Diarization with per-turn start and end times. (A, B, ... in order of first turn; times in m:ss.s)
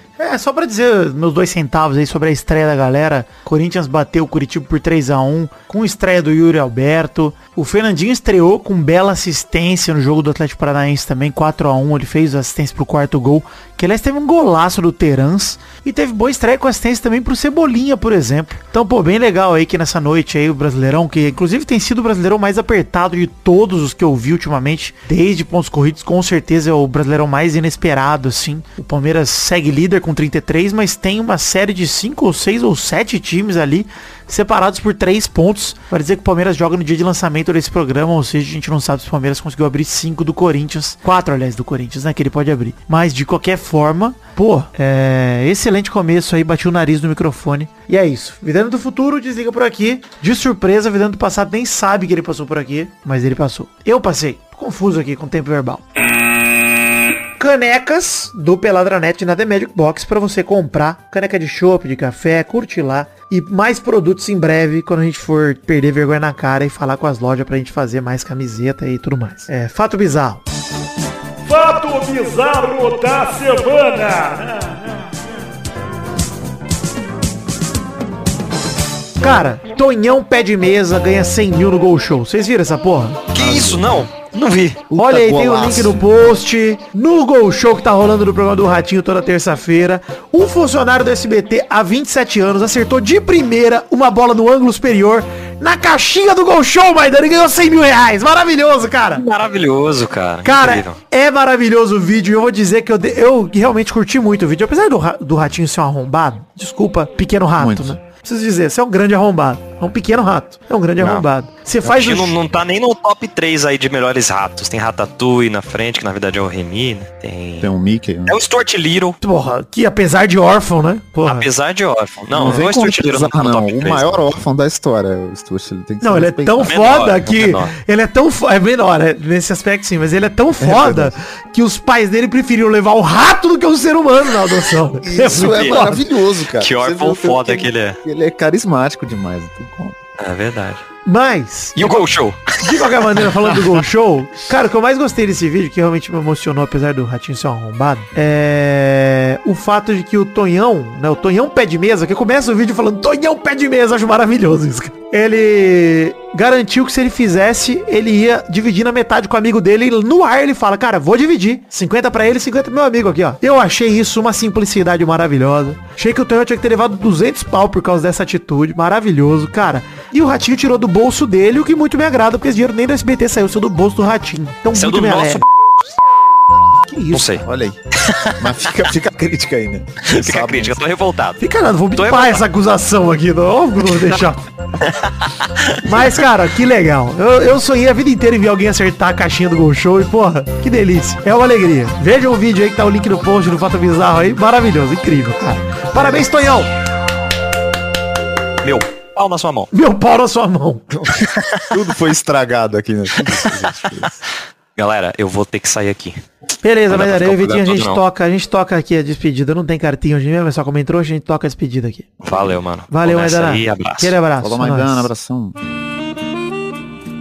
0:00.2-0:55.8 A
0:57.4-1:10.4 A
1:11.5-1:14.7 A
1:19.2-1:23.3 A
1:23.3-1:24.8 B
1:23.3-1:24.0 C
1:24.9-1:26.0 C
1:24.9-1:39.2 A
1:39.1-1:41.0 B
1:40.4-1:52.4 A
1:47.6-1:47.9 C
1:51.0-1:51.2 B
1:51.8-1:57.7 B
1:57.6-1:58.4 C
1:58.3-1:59.2 B
1:59.2-2:01.5 A
2:01.2-2:04.3 B
2:02.3-2:06.8 C
2:06.0-2:16.0 A
2:06.6-2:07.8 B
2:10.6-2:11.1 C
2:15.0-2:20.0 C
2:15.3-2:15.9 B
2:16.6-2:18.0 B
2:20.2-2:20.8 B
2:21.0-2:22.0 A
2:21.8-2:23.1 B
2:22.6-2:55.4 A
2:54.7-2:55.4 B
2:56.9-2:57.3 A
2:57.1-2:57.4 B
2:57.4-2:57.8 C
2:58.0-2:58.3 B
2:58.4-3:00.8 C
3:00.0-3:01.4 B
3:01.4-3:04.5 A
3:02.0-3:02.4 B
3:04.8-3:06.0 B
3:05.8-3:16.7 A
3:18.6-3:19.7 B
3:19.7-3:21.0 A
3:21.2-3:21.6 B
3:21.7-3:24.2 C
3:24.8-3:26.2 B
3:26.6-3:32.1 A
3:26.9-3:28.0 B
3:32.2-3:34.1 B
3:32.9-3:35.1 A
3:34.4-3:35.6 C